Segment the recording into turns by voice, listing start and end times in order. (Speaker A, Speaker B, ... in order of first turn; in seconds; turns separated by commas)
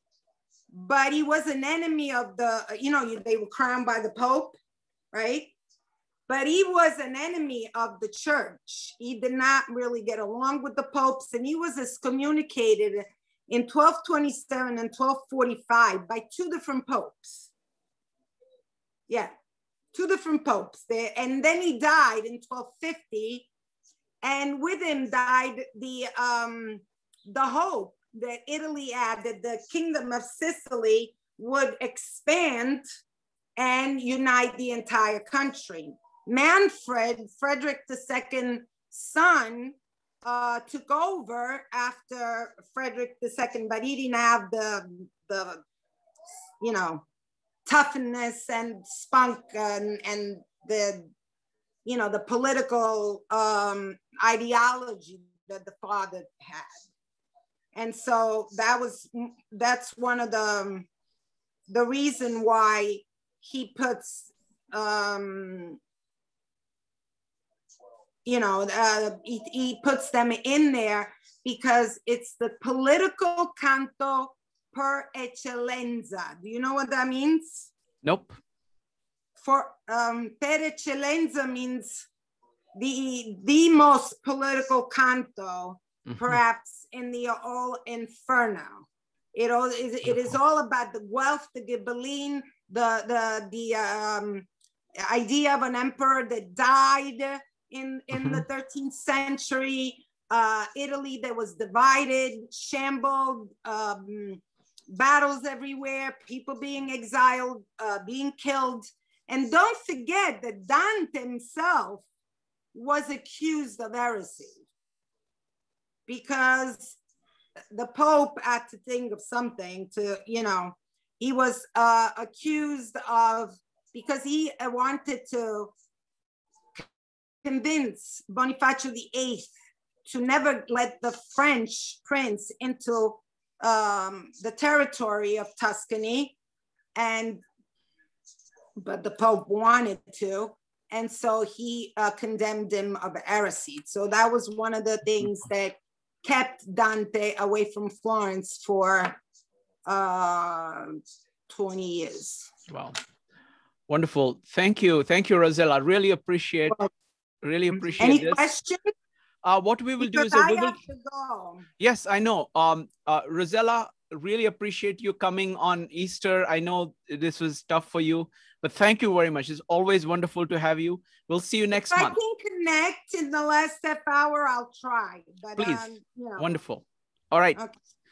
Speaker A: 0.7-4.6, Speaker A: 5.1-5.5, Speaker A: 6.3-17.5, Speaker A: 19.1-19.3, Speaker A: 19.9-23.5, Speaker A: 24.2-32.9, Speaker A: 33.6-45.6, Speaker A: 46.6-47.0, Speaker A: 47.7-51.1, Speaker A: 51.9-56.8, Speaker A: 57.7-60.9, Speaker A: 61.7-65.8, Speaker A: 68.3-77.7, Speaker B: 78.0-78.4, Speaker A: 79.4-82.0, Speaker A: 82.8-94.5, Speaker B: 86.1-86.4, Speaker A: 95.0-112.0, Speaker A: 112.7-114.7, Speaker A: 116.1-117.0, Speaker A: 117.7-125.7, Speaker A: 127.5-129.5, Speaker A: 130.1-136.3, Speaker A: 137.0-137.4, Speaker A: 138.8-149.2, Speaker A: 149.9-152.5, Speaker B: 152.7-153.0, Speaker B: 153.9-156.8, Speaker B: 157.4-158.5, Speaker A: 158.0-158.9, Speaker B: 159.4-160.8, Speaker A: 160.0-161.7, Speaker B: 161.8-172.2, Speaker A: 171.8-176.5, Speaker B: 175.6-177.6